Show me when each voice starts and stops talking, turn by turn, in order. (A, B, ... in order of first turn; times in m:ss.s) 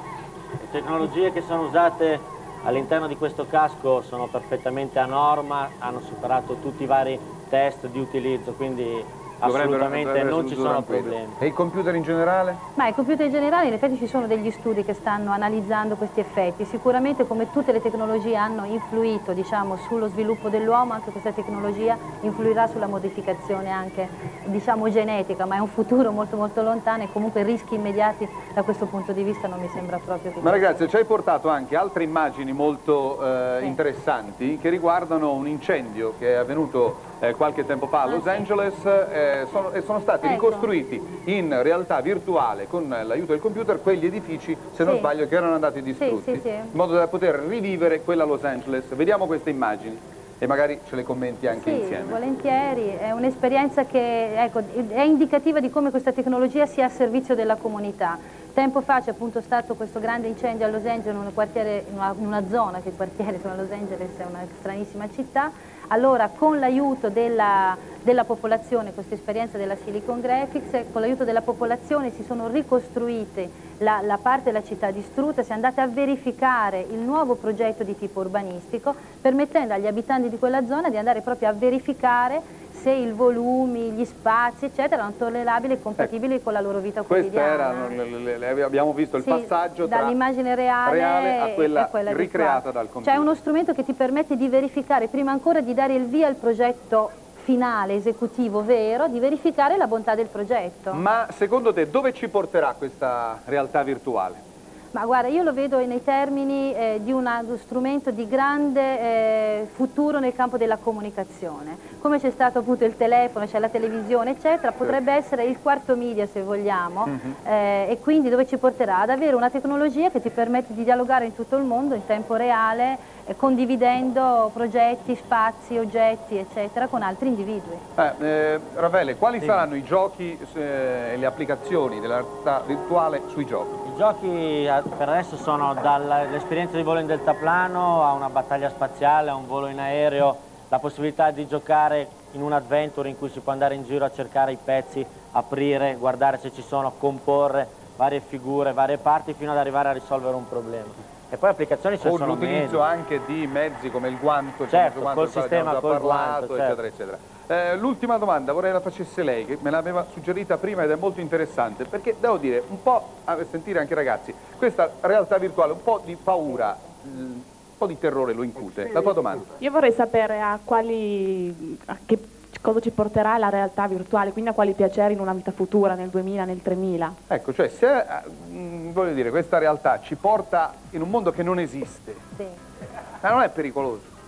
0:00.6-0:11.3 A
0:09.4-0:12.6 B
0:12.8-0:30.8 C
0:30.4-0:52.2 B
0:38.1-0:38.4 C
0:40.2-0:40.7 C
0:44.8-0:45.1 C
0:46.0-0:46.7 C
0:51.5-1:28.0 C
1:27.1-1:30.2 B
1:29.2-1:41.0 C
1:30.8-1:33.3 B
1:40.9-1:44.4 B
1:44.9-2:07.8 C
1:57.1-1:57.3 B
2:08.0-2:13.8 B
2:09.4-2:09.6 A
2:13.8-2:32.8 A
2:32.0-2:49.5 B
2:34.7-2:36.8 A
2:49.6-2:57.2 D
2:57.3-3:02.2 B
3:03.2-3:04.1 B